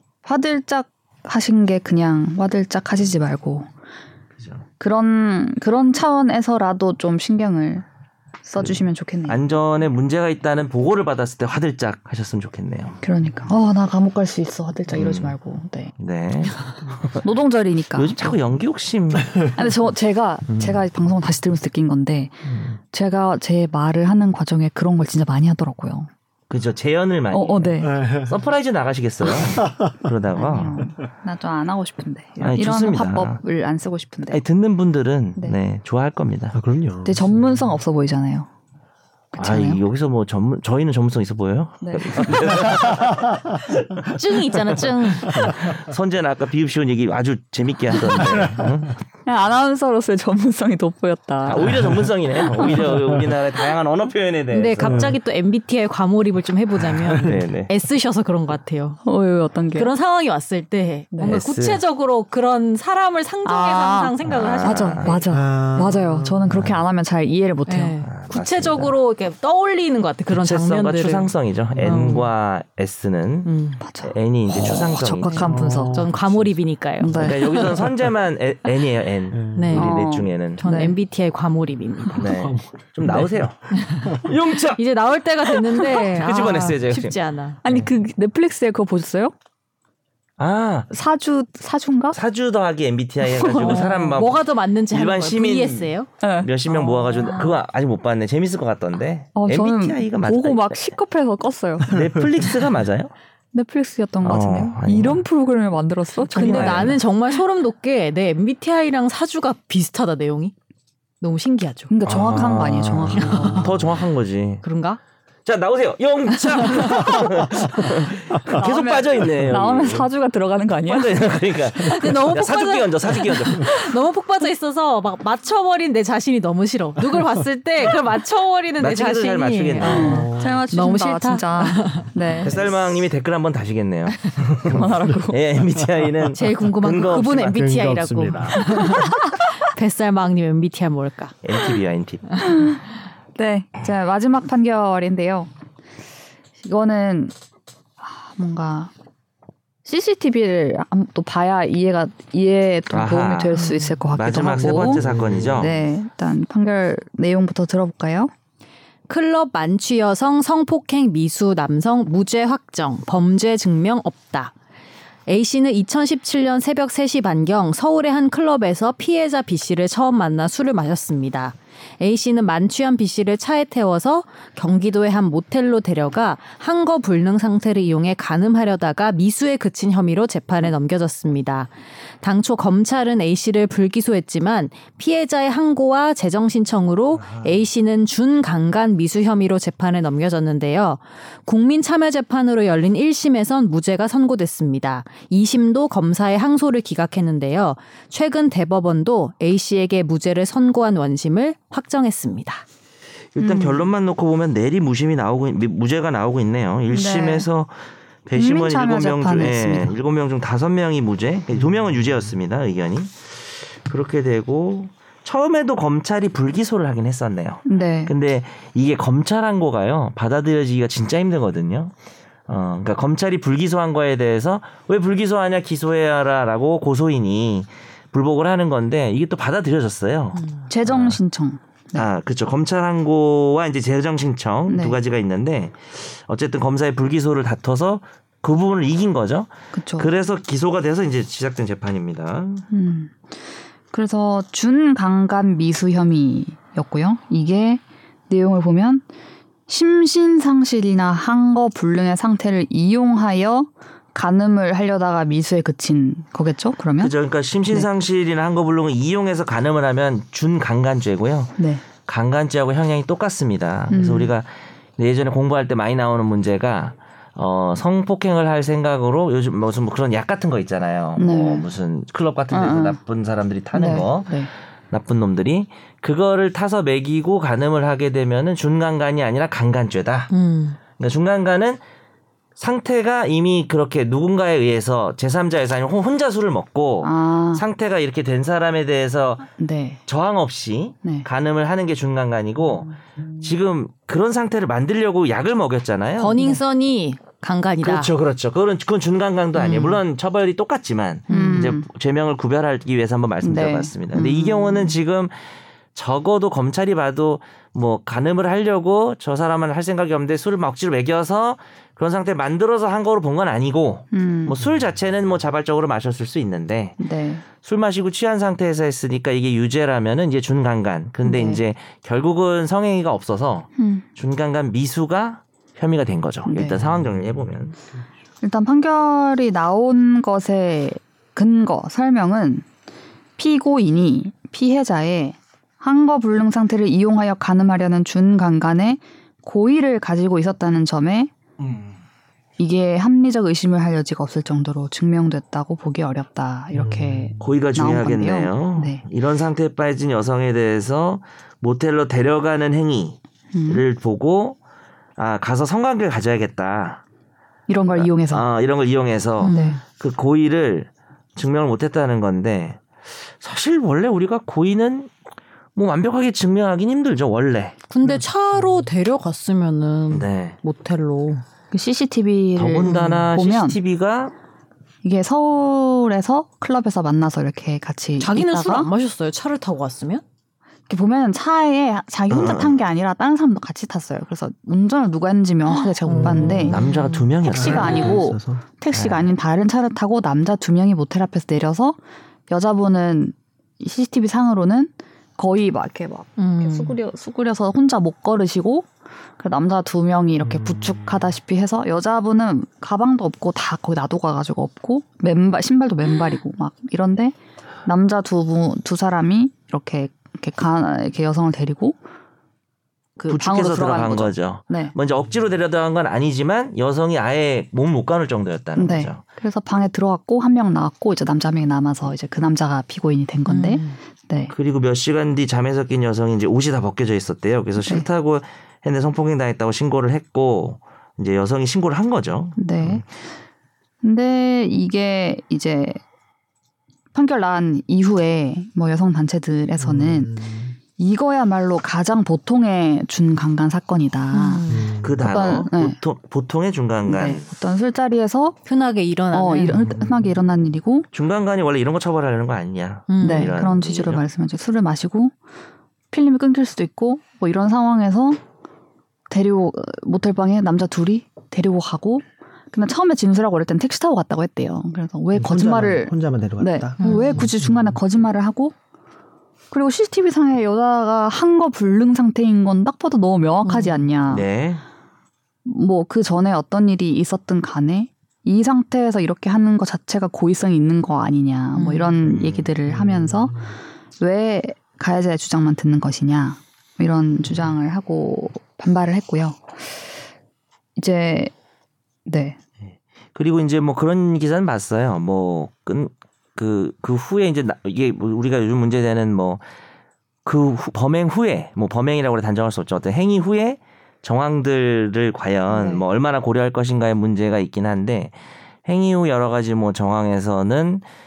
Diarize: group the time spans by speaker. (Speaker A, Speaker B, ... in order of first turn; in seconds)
Speaker A: 0.2-3.7, 4.8-7.9, 8.4-9.4, 13.0-15.9, 17.2-18.4, 19.5-26.1, 27.3-28.1, 30.3-34.4, 37.0-38.5, 39.3-39.8, 41.8-42.8, 49.3-51.8, 52.4-53.0, 59.0-59.9, 61.1-61.4, 63.5-68.0, 73.8-76.0, 77.0-77.8, 79.7-81.0, 87.6-89.3, 90.9-92.2, 93.4-94.0, 96.2-97.5, 99.4-101.9, 103.5-107.0, 111.9-113.7, 118.5-121.3, 129.8-132.7, 134.7-135.4, 138.8-139.1, 142.4-142.8, 143.4-145.5, 146.6-147.3, 148.0-148.9, 149.8-158.3, 203.4-203.9, 206.9-207.5, 208.4-209.9, 217.7-218.1, 230.7-232.1, 234.7-235.0, 239.7-240.1, 242.7-243.4, 243.9-249.1, 249.7-257.1, 261.6-261.8, 263.9-264.3, 271.2-271.7, 272.5-273.0, 273.7-274.5, 287.0-287.6, 289.6-290.0, 299.6-300.0, 301.3-301.9, 303.4-305.0, 314.1-314.6, 317.0-317.4, 321.2-321.6, 323.8-324.1, 326.4-326.8, 328.4-332.7, 333.4-341.3, 342.6-349.0, 353.5-353.8, 357.7-358.4, 359.4-359.8, 371.7-373.8, 375.0-378.9, 380.9-386.8, 387.4-412.0, 413.2-414.9, 418.8-424.5, 432.6-433.1, 434.0-436.0, 437.1-440.4, 440.9-444.6, 445.2-446.0, 447.1-448.6, 449.3-451.1, 453.2-455.3, 456.1-458.4, 459.3-468.7, 469.7-474.5, 475.6-483.6, 484.2-490.0, 490.9-491.5, 492.3-492.6, 505.7-506.0
Speaker B: 4.4-4.6, 8.6-13.0, 14.9-15.3, 16.0-17.3, 17.9-19.6, 26.5-30.9, 32.4-33.4, 34.3-36.6, 39.4-49.0, 51.4-55.1, 57.1-57.7, 61.3-61.8, 64.2-65.2, 66.5-66.8, 68.0-69.0, 70.3-73.5, 74.0-75.5, 77.1-80.6, 82.1-84.8, 85.8-87.2, 90.4-90.9, 92.1-101.0, 101.9-103.1, 104.2-105.2, 106.2-107.0, 112.0-114.6, 115.5-120.1, 120.9-123.9, 128.8-130.3, 132.4-137.7, 138.2-138.6, 141.4-142.4, 152.9-153.6, 154.1-155.7, 187.2-187.5, 203.3-207.7, 208.3-221.9, 222.5-231.2, 231.9-242.7, 257.0-280.3, 281.0-281.8, 282.6-289.5, 290.1-296.4, 297.8-317.0, 317.6-327.7, 341.6-341.9, 347.4-354.6, 355.2-357.0, 357.9-365.1, 365.8-367.8, 370.1-370.6, 372.6-374.3, 382.3-382.8, 386.7-388.2, 388.9-389.3, 413.3-419.2, 424.5-433.0, 445.0-447.4, 451.1-454.2, 474.3-474.8, 482.2-482.7, 492.8-499.6, 500.4-511.0
Speaker C: 27.9-28.3, 36.5-37.8, 42.7-43.1, 54.8-55.1, 57.1-57.4, 65.3-66.7, 75.4-76.6, 79.3-79.8, 82.1-83.5, 101.9-102.2, 113.3-113.9, 129.9-130.6, 134.7-135.0, 137.5-139.0, 154.6-155.9, 326.8-327.7, 346.7-347.5, 386.1-386.9, 387.4-388.6, 400.5-401.1, 439.8-440.8, 444.7-445.3, 449.7-450.3, 465.3-468.0, 482.8-483.7
Speaker D: 44.1-45.5, 54.5-59.0, 59.7-65.1, 67.7-72.3, 73.5-73.8, 75.3-77.6, 79.5-80.0, 80.6-82.3, 83.7-87.6, 93.5-96.1, 97.2-97.5, 106.3-110.5, 111.2-111.9, 113.2-113.6, 114.6-115.0, 116.6-117.2, 121.8-132.1, 136.3-141.4, 153.5-154.0, 159.1-164.5, 165.3-202.6, 230.3-230.7, 280.3-280.8, 296.2-298.1, 301.3-301.6, 359.4-359.8, 367.9-371.4, 378.2-380.2, 386.1-387.2, 396.4-396.9, 423.5-424.0, 444.3-444.9, 448.6-449.8, 453.1-453.6, 467.0-467.5, 473.6-474.0, 481.7-482.2